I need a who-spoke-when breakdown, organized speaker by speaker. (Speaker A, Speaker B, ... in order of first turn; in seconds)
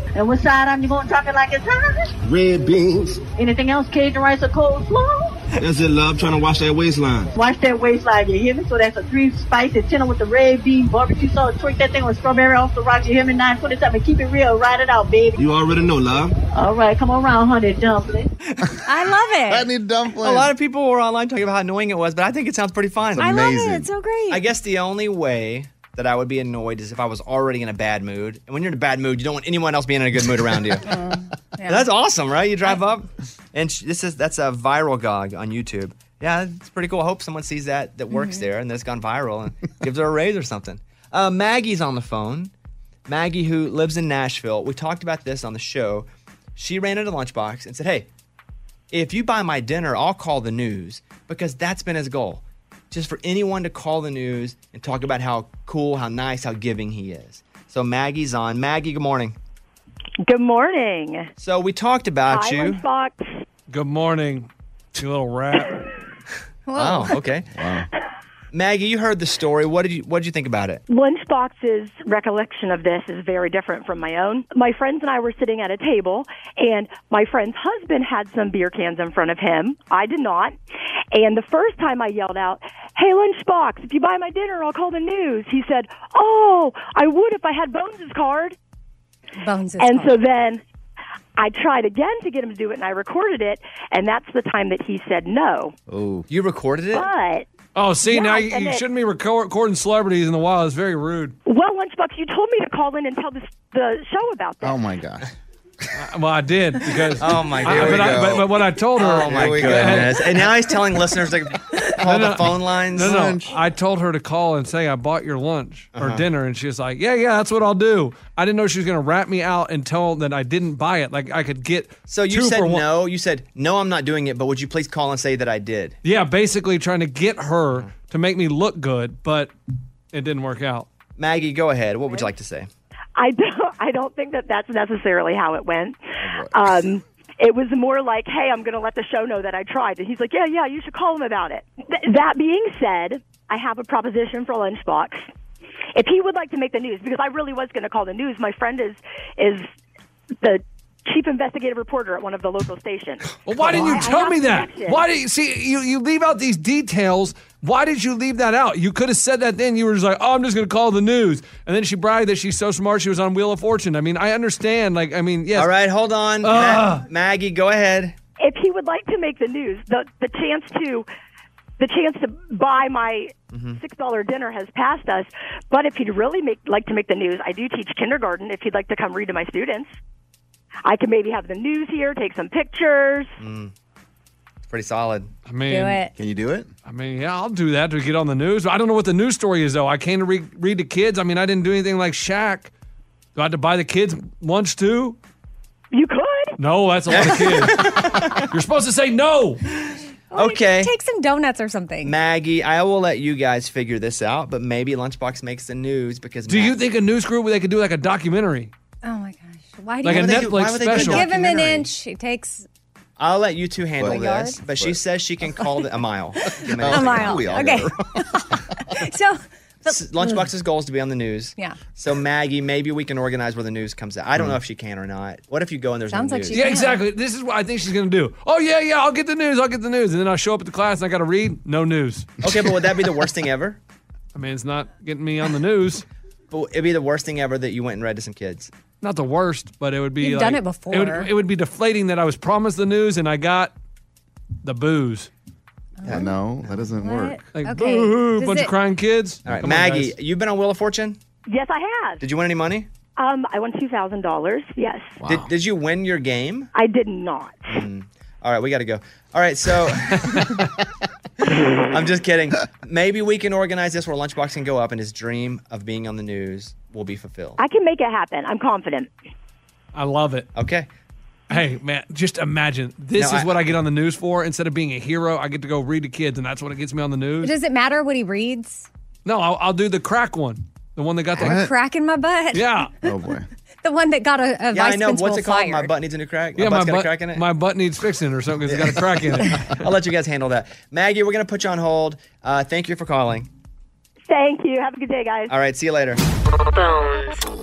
Speaker A: 0.1-2.1, 3.4-5.4, 7.4-15.4, 16.5-18.3
Speaker B: 2.2-3.2, 5.6-7.3, 15.4-16.4
Speaker C: 18.9-19.7, 23.2-24.4, 30.9-31.8, 38.1-38.4, 66.7-67.2, 89.4-90.2, 185.7-186.1, 200.3-202.1, 209.0-212.7, 214.0-214.6, 216.8-220.4, 226.1-227.0, 240.2-241.3, 246.0-246.3, 247.0-248.7, 277.4-278.9, 281.4-282.8, 283.8-285.9
Speaker D: 19.5-20.5, 23.1-23.9, 67.5-67.9, 95.9-96.3, 104.6-105.3, 107.3-110.2, 113.0-113.5, 186.2-186.7, 214.0-215.0, 216.7-218.8, 246.0-247.4, 255.2-255.5, 281.4-281.7, 283.0-283.5
Speaker E: 20.2-23.3, 24.3-30.9, 31.7-42.5, 43.1-48.1, 48.9-59.4, 61.4-62.8, 66.8-67.5, 68.5-70.8, 96.3-97.1, 107.2-108.4, 109.0-113.2, 116.0-116.3, 122.1-126.0, 131.2-132.7, 136.2-136.5, 165.6-168.2, 173.5-173.8, 183.4-183.7, 184.7-185.3, 197.1-198.5, 199.9-200.9, 202.0-206.8, 210.1-211.9, 213.2-217.6, 219.9-226.7, 232.4-233.8, 236.5-238.7, 246.1-246.9, 249.5-251.2, 252.2-252.9, 255.2-256.7, 257.7-260.5, 261.9-267.6, 270.6-270.9, 273.2-273.5, 284.7-287.4, 288.7-293.5, 295.5-296.2
Speaker F: 60.2-61.3, 62.3-63.3, 70.9-80.5, 81.1-88.6, 89.8-90.6, 91.4-95.7, 96.9-97.5, 98.1-98.9, 101.5-104.8, 133.2-145.2, 145.9-149.7, 150.4-155.1, 168.4-171.1, 171.8-179.9, 180.8-183.3, 195.9-196.6, 251.5-252.2, 253.2-255.2, 256.8-257.7, 267.6-269.1, 294.3-295.5, 296.8-297.3
Speaker G: 63.7-65.8, 97.8-101.3, 106.0-110.2, 112.0-122.9, 126.0-129.5, 130.1-130.9, 153.4-165.7, 166.4-167.0, 185.5-186.0, 186.9-192.7, 193.4-195.2, 196.6-198.0, 198.5-199.6, 206.5-208.7, 210.0-211.3, 226.5-232.3, 234.3-236.0, 239.0-243.7, 244.6-245.3, 247.5-250.1, 269.9-270.5, 271.5-277.5, 279.2-281.7, 282.5-282.9, 286.6-289.6